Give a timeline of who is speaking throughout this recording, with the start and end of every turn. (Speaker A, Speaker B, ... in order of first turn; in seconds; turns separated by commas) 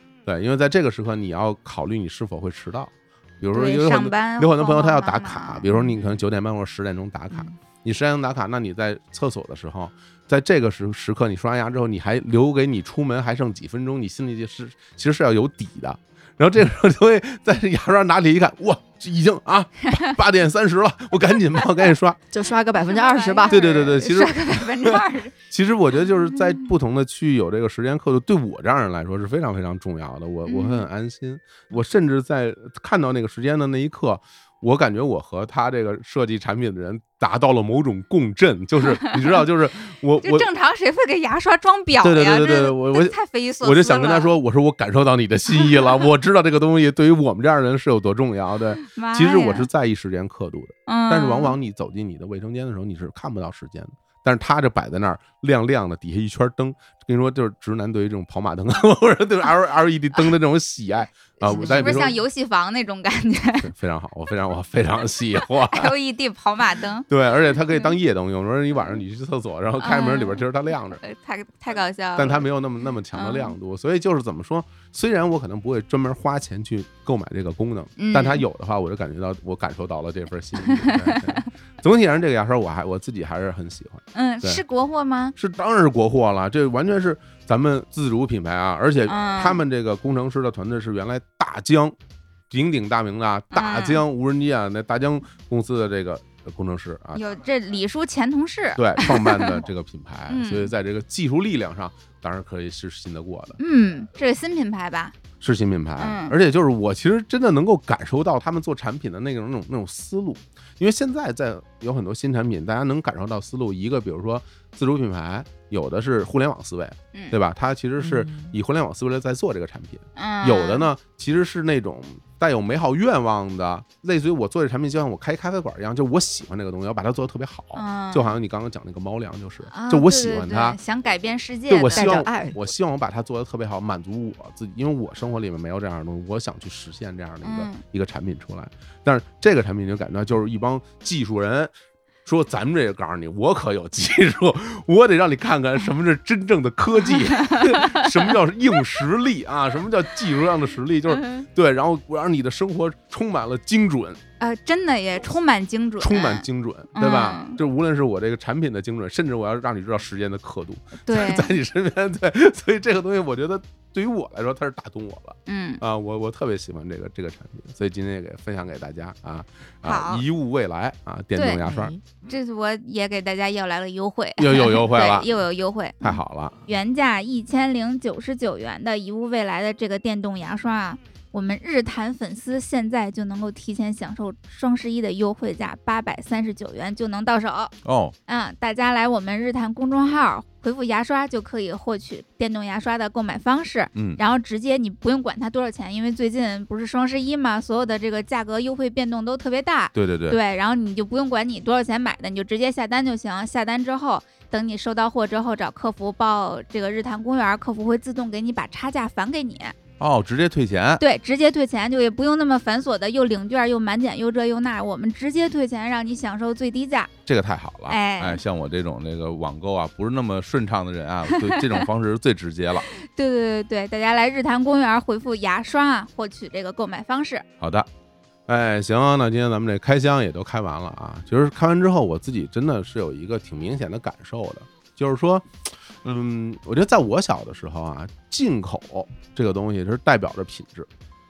Speaker A: 0.2-22.2, Speaker B: 3.5-5.6, Speaker C: 5.7-6.2, Speaker C: 22.3-23.8, Speaker B: 22.8-25.3, Speaker A: 23.5-40.5, Speaker B: 30.4-30.9, Speaker B: 38.9-39.4, Speaker B: 40.2-44.3, Speaker A: 42.0-62.2, Speaker B: 45.5-46.0, Speaker B: 48.8-49.7, Speaker B: 50.9-51.6, Speaker B: 61.4-63.7, Speaker C: 61.5-62.0, Speaker A: 63.6-65.9, Speaker B: 65.7-67.9, Speaker A: 67.1-71.0, Speaker B: 69.8-72.5, Speaker A: 72.2-84.6, Speaker B: 73.1-73.5, Speaker B: 78.0-78.4, Speaker B: 80.6-81.4, Speaker B: 84.1-85.3, Speaker A: 85.3-92.0, Speaker B: 89.1-89.6, Speaker A: 92.5-97.2, Speaker B: 93.5-94.0, Speaker B: 97.1-99.6, Speaker A: 98.8-103.6, Speaker B: 100.3-100.7, Speaker B: 103.6-105.1, Speaker A: 105.4-130.8, Speaker B: 106.0-106.3, Speaker C: 118.0-118.5, Speaker B: 120.2-120.9, Speaker B: 127.7-128.4, Speaker B: 129.7-132.1, Speaker A: 131.7-141.7, Speaker C: 131.9-132.6, Speaker B: 137.4-137.8, Speaker A: 142.2-154.2, Speaker B: 147.1-148.3, Speaker B: 151.2-151.4, Speaker B: 154.4-157.6, Speaker A: 156.0-171.9, Speaker B: 161.0-161.5, Speaker B: 165.5-165.8, Speaker B: 169.8-170.2, Speaker B: 171.3-171.6, Speaker C: 171.6-172.0, Speaker B: 172.2-187.7, Speaker A: 174.4-175.3, Speaker A: 176.0-176.6, Speaker A: 187.8-188.1, Speaker B: 188.3-209.7, Speaker A: 193.9-194.2, Speaker A: 199.9-200.4, Speaker A: 210.0-211.0, Speaker B: 211.0-217.1, Speaker A: 217.2-222.9, Speaker B: 217.9-218.4, Speaker B: 221.3-221.8, Speaker B: 222.9-227.4, Speaker A: 227.6-227.9, Speaker A: 228.5-240.9